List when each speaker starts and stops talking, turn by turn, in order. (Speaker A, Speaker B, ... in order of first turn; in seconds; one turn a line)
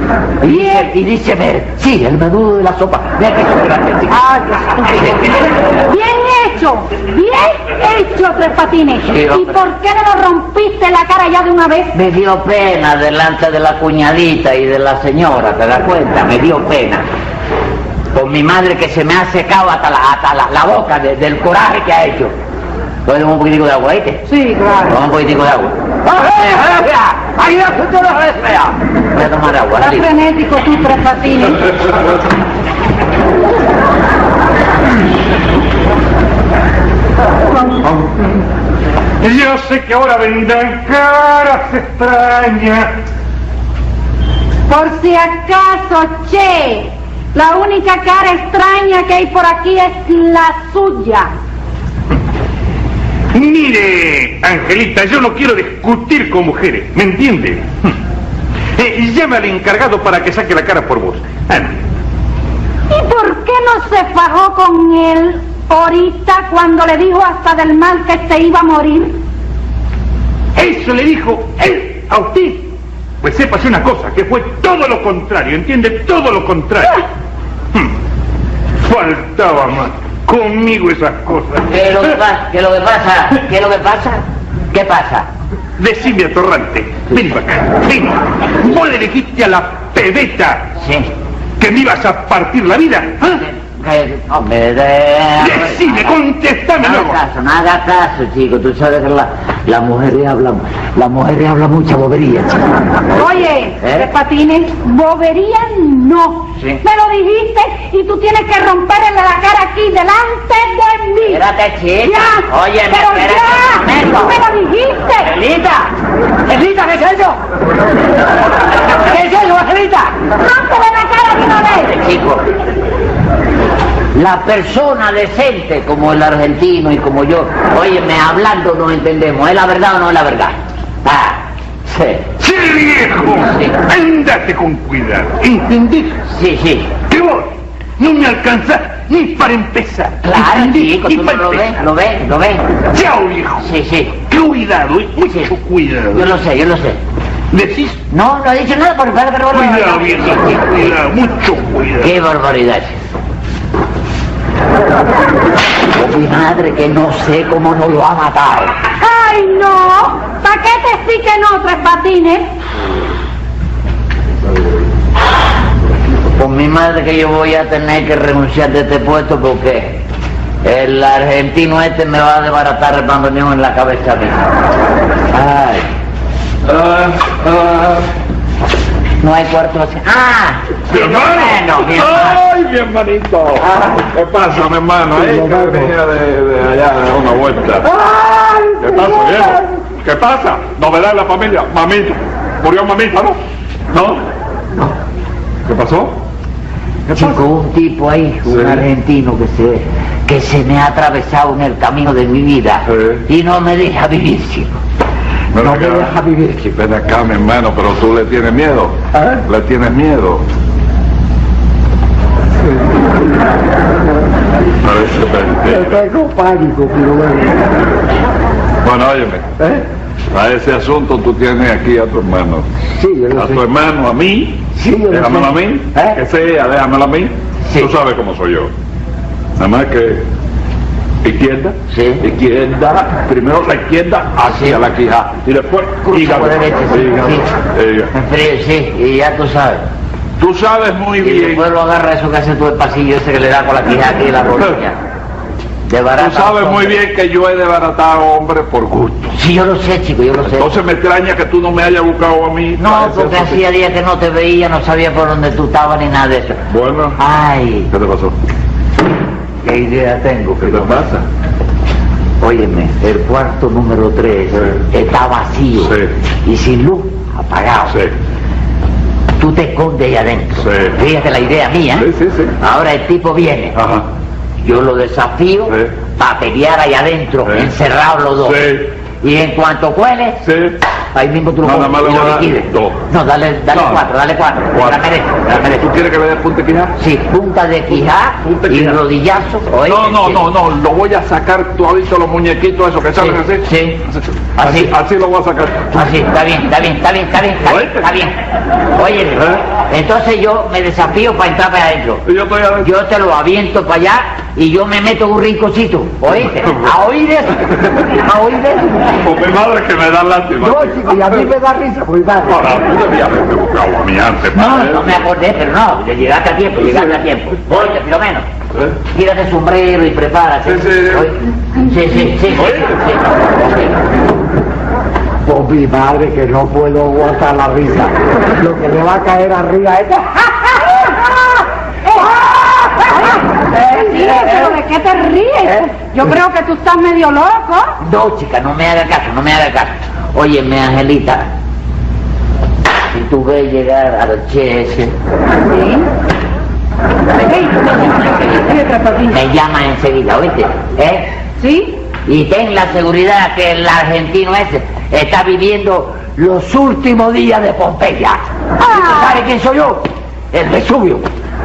Speaker A: 0.4-4.2
Speaker B: 0.4-0.9
Speaker B: 4.1-5.0
Speaker A: 4.8-5.4
Speaker B: 5.9-12.0
Speaker A: 9.0-9.6
Speaker A: 11.9-17.1
Speaker A: 18.1-22.3
Speaker A: 23.1-24.2
Speaker B: 24.3-25.0
Speaker A: 24.9-30.1
Speaker B: 29.8-31.8
Speaker C: 37.8-38.2
Speaker C: 39.2-43.0
Speaker B: 44.7-51.3
Speaker C: 53.3-58.0
Speaker C: 58.8-61.8
Speaker B: 62.9-69.2
Speaker C: 70.5-77.0
Speaker C: 78.8-82.2
Speaker A: 81.7-85.3
Speaker C: 85.8-90.7
Speaker A: 90.8-91.1
Speaker C: 91.6-93.4
Speaker A: 93.3-96.2
Speaker C: 95.4-97.2
Speaker A: 96.8-104.1
Speaker B: 103.2-111.4
Speaker A: 111.2-114.4
Speaker B: 112.0-115.3
Speaker A: 115.2-115.9
Speaker A: 116.5-117.4
Speaker A: 118.9-120.2
Speaker B: 120.4-122.0
Speaker A: 121.8-122.5
Speaker A: 124.1-132.3
Speaker C: 132.4-136.2
Speaker A: 133.4-133.8
Speaker A: 136.3-136.9
Speaker C: 137.1-141.8
Speaker A: 140.2-142.7
Speaker C: 142.9-143.7
Speaker A: 143.6-144.2
Speaker C: 144.2-146.4
Speaker A: 146.1-147.0
Speaker C: 147.5-148.0
Speaker A: 148.1-150.9
Speaker C: 149.5-152.2
Speaker A: 152.0-153.0
Speaker A: 155.9-158.8
Speaker B: 159.0-162.5
Speaker A: 166.4-170.0
Speaker A: 170.6-174.5
Speaker A: 175.3-175.9
Speaker D: 176.6-178.1
Speaker A: 179.2-182.4
Speaker D: 180.9-187.9
Speaker E: 183.7-184.0
Speaker E: 185.2-185.9
Speaker E: 187.8-189.7
Speaker D: 188.8-193.4
Speaker D: 193.9-194.2
Speaker D: 195.7-196.2
Speaker A: 197.1-204.8
Speaker D: 198.5-198.9
Speaker D: 202.9-203.2
Speaker D: 205.5-210.4
Speaker E: 205.6-206.6
Speaker E: 209.1-209.4
Speaker D: 214.8-216.0
Speaker E: 215.7-217.7
Speaker D: 218.8-219.5
Speaker D: 220.3-222.7
Speaker E: 223.0-223.6
Speaker D: 223.3-228.7
Speaker E: 224.8-225.6
Speaker D: 229.6-230.3
Speaker D: 231.2-238.1
Speaker A: 231.9-232.2
Speaker A: 234.4-234.8
Speaker A: 236.0-237.5
Speaker A: 238.1-239.9
Speaker D: 240.4-241.7
Speaker A: 241.2-245.0
Speaker A: 245.9-247.0
Speaker D: 246.2-249.4
Speaker A: 249.4-250.7
Speaker D: 250.4-253.7
Speaker A: 252.8-256.6
Speaker D: 256.7-257.2
Speaker A: 257.2-257.9
Speaker D: 257.9-258.4
Speaker A: 259.6-261.0
Speaker D: 260.6-261.3
Speaker A: 262.4-267.9
Speaker D: 264.5-264.8
Speaker D: 265.8-266.1
Speaker D: 267.9-268.1
Speaker A: 269.4-272.1
Speaker D: 270.6-271.0
Speaker D: 271.9-272.6
Speaker A: 272.6-273.8
Speaker D: 273.7-274.1
Speaker A: 274.6-280.4
Speaker D: 275.7-276.0
Speaker D: 277.4-277.7
Speaker D: 278.4-278.9
Speaker D: 280.4-280.8
Speaker A: 281.1-285.9
Speaker D: 281.6-283.1
Speaker D: 283.7-284.1
Speaker D: 284.7-286.9
Speaker A: 287.0-290.4
Speaker D: 288.4-289.0
Speaker D: 289.8-296.0
Speaker A: 293.2-294.0
Speaker A: 294.6-294.9
Speaker A: 295.9-298.4
Speaker D: 297.6-298.2
Speaker A: 298.9-302.2
Speaker D: 299.4-299.6
Speaker D: 302.2-302.9
Speaker A: 302.8-309.2
Speaker D: 309.2-311.5
Speaker E: 310.6-312.7
Speaker D: 312.5-315.2
Speaker A: 314.5-318.5
Speaker D: 316.8-317.1
Speaker D: 317.7-318.0
Speaker D: 318.7-319.0
Speaker A: 319.1-324.1
Speaker D: 320.6-321.3
Speaker D: 322.5-323.0
Speaker E: 325.4-330.8
Speaker B: 332.1-332.4
Speaker B: 333.0-337.9
Speaker A: 333.7-334.7
Speaker A: 338.0-341.5
Speaker A: 343.1-345.1
Speaker B: 345.7-346.1
Speaker A: 347.3-351.3
Speaker B: 347.5-347.8
Speaker B: 348.7-349.4
Speaker B: 351.6-352.0
Speaker A: 352.3-361.3
Speaker B: 358.8-359.4